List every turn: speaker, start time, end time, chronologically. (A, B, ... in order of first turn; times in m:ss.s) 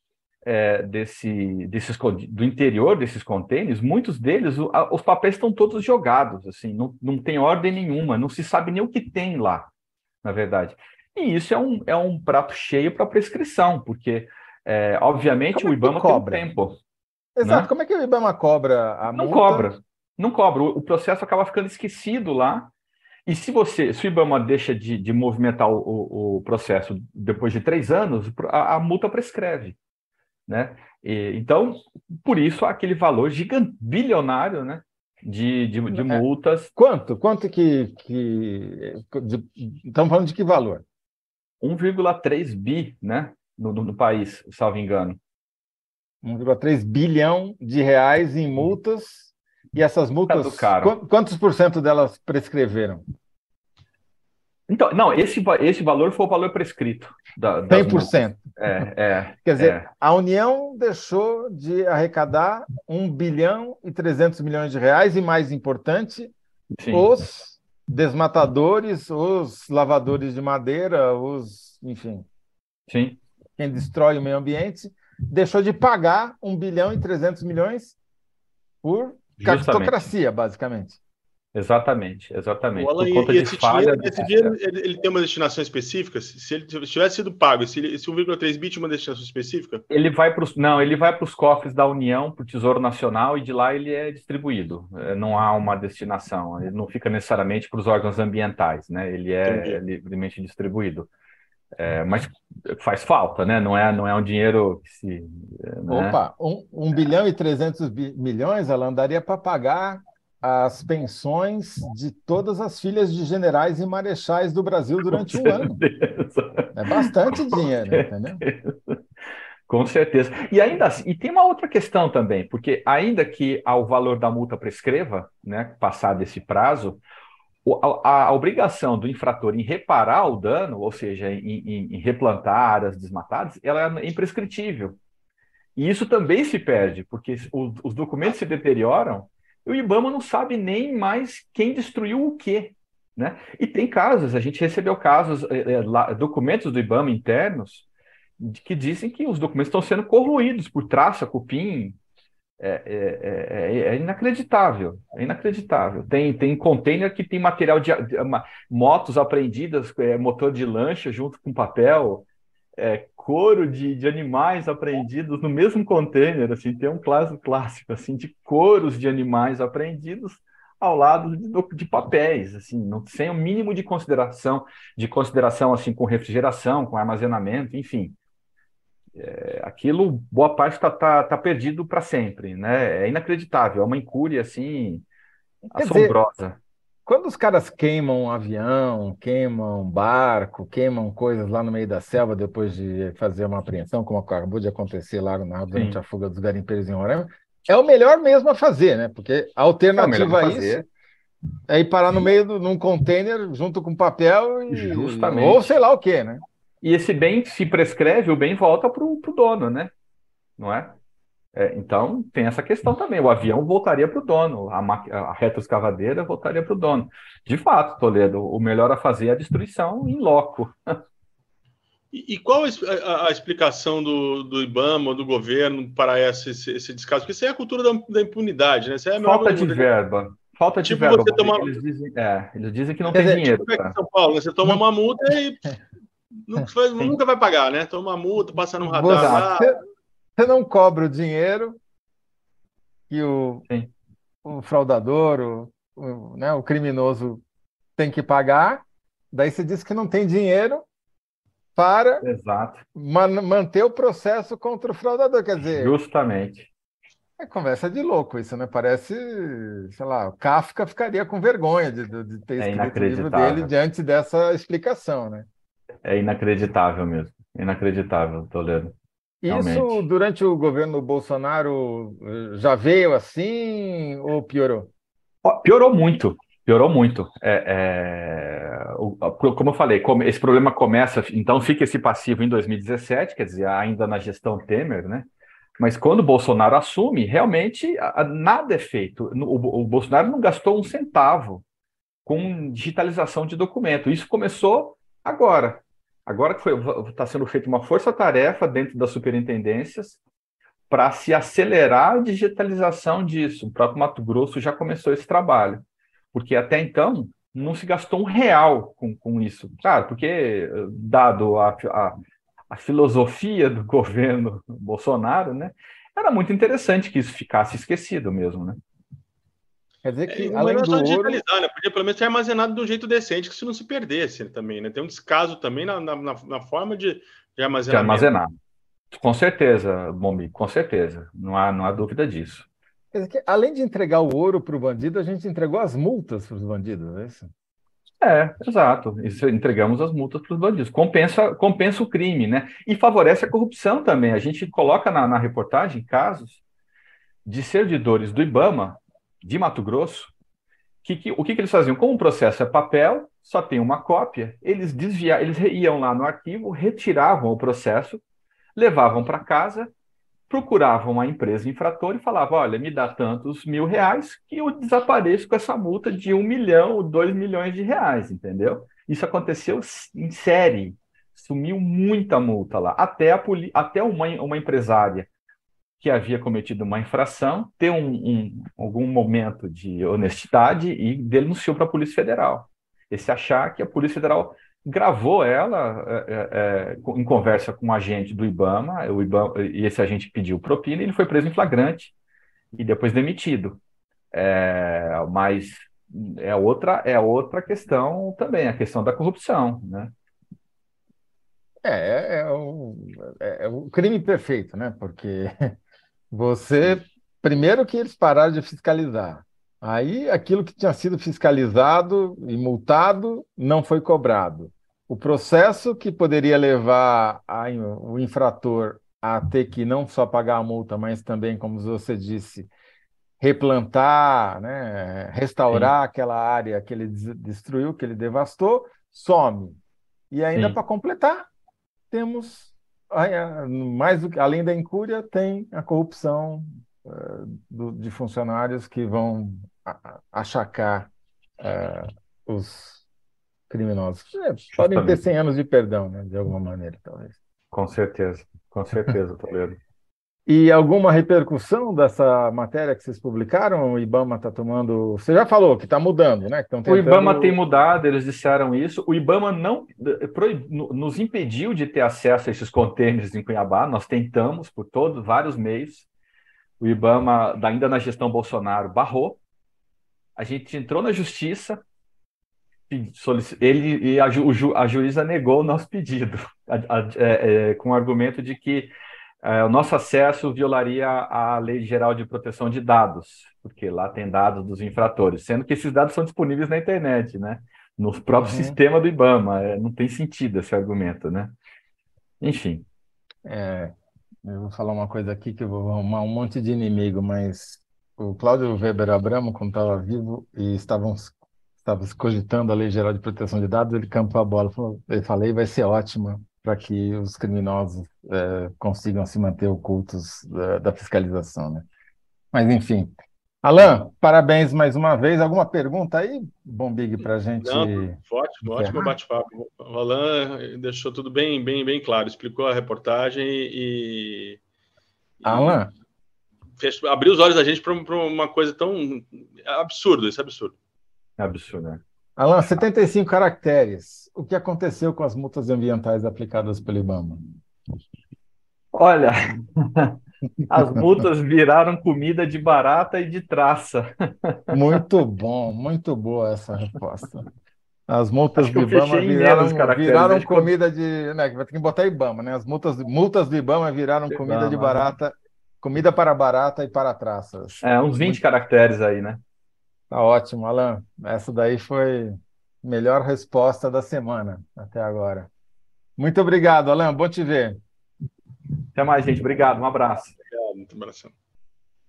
0:00.4-0:09.7 A
0:10.2-0:16.8 A
0:15.5-0:16.5 B
0:17.4-0:19.7 B
0:17.4-0:17.7 A
0:19.1-0:22.7 A
0:23.3-0:29.8 A
0:30.5-0:36.7 A
0:35.9-0:36.2 B
0:36.8-0:40.8 B
0:41.6-0:45.2 A
0:46.2-0:53.0 B
0:50.3-0:51.0 A
0:54.7-0:59.9 A
0:57.7-0:58.4 B
0:59.4-1:06.3 B
1:06.8-1:07.1 A
1:06.9-1:12.3 B
1:12.9-1:13.2 A
1:13.6-1:18.0 B
1:18.8-1:21.0 B
1:19.4-1:20.0 A
1:21.5-1:24.6 A
1:22.8-1:29.8 C
1:29.9-1:41.1 A
1:39.4-1:39.8 C
1:41.8-1:46.2 A
1:45.9-1:55.8 B
1:55.1-1:59.0 A
1:56.7-1:58.4 B
1:59.7-2:07.0 A
2:07.6-2:15.0 A
2:15.8-2:27.8 A
2:28.4-2:32.0 A
2:32.6-2:58.2 A
2:59.2-3:05.0 A
3:05.7-3:06.6 A
3:05.8-3:06.2 B
3:07.1-3:20.8 B
3:15.7-3:16.0 A
3:20.0-3:20.9 A
3:21.7-3:26.4 B
3:24.7-3:25.7 A
3:26.8-3:29.9 A
3:30.6-3:31.0 A
3:31.5-3:41.0 A
3:42.1-3:49.9 C
3:49.2-3:54.0 A
3:50.8-3:51.8 C
3:53.1-3:53.4 B
3:53.1-3:55.8 C
3:56.4-3:59.7 C
3:58.9-3:59.8 B
3:59.1-3:59.5 A
4:00.4-4:01.8 B
4:03.1-4:03.6 B
4:04.4-4:07.4 B
4:08.0-4:10.8 B
4:11.8-4:12.2 B
4:12.2-4:12.8 A
4:12.9-4:16.0 B
4:15.7-4:16.7 A
4:17.4-4:25.5 B
4:22.6-4:23.7 A
4:26.0-4:29.0 A
4:29.4-4:34.9 B
4:29.5-4:30.0 A
4:35.4-4:51.6 A
4:52.2-5:00.2 A
5:00.9-5:12.2 A
5:12.7-5:18.8 A
5:20.0-5:21.4 B
5:20.3-5:28.3 C
5:27.9-5:28.5 A
5:29.1-5:32.7 A
5:33.1-5:37.5 B
5:38.2-5:46.6 A
5:47.4-5:50.3 A
5:51.0-5:58.2 A
5:58.8-5:59.9 A
6:00.5-6:15.3 A
6:16.0-6:32.1 A
6:32.8-6:33.8 A
6:34.3-6:40.1 A
6:41.8-6:45.8 B
6:46.3-7:02.7 B
7:03.4-7:09.8 B
7:10.3-7:11.5 B
7:12.1-7:23.0 B
7:23.7-7:27.4 B
7:24.7-7:25.2 A
7:27.7-7:29.8 A
7:30.5-7:37.6 B
7:36.9-7:46.1 A
7:46.8-7:49.4 A
7:50.4-7:51.8 A
7:52.9-7:58.9 A
7:59.4-8:11.6 A
8:08.3-8:08.8 B
8:12.4-8:12.9 A
8:13.4-8:31.9 B
8:32.5-8:39.1 B
8:37.6-8:44.6 C
8:45.4-8:45.8 C
8:45.4-8:45.9 B
8:46.8-8:50.8 C
8:51.4-8:52.0 A
8:52.4-8:57.4 B
8:58.9-9:04.7 A
9:04.7-9:07.5 B
9:08.1-9:18.4 B
9:08.6-9:10.7 A
9:14.3-9:15.1 A
9:17.8-9:19.4 A
9:20.1-9:25.5 B
9:26.2-9:27.8 B
9:29.0-9:30.4 A
9:30.5-9:31.3 C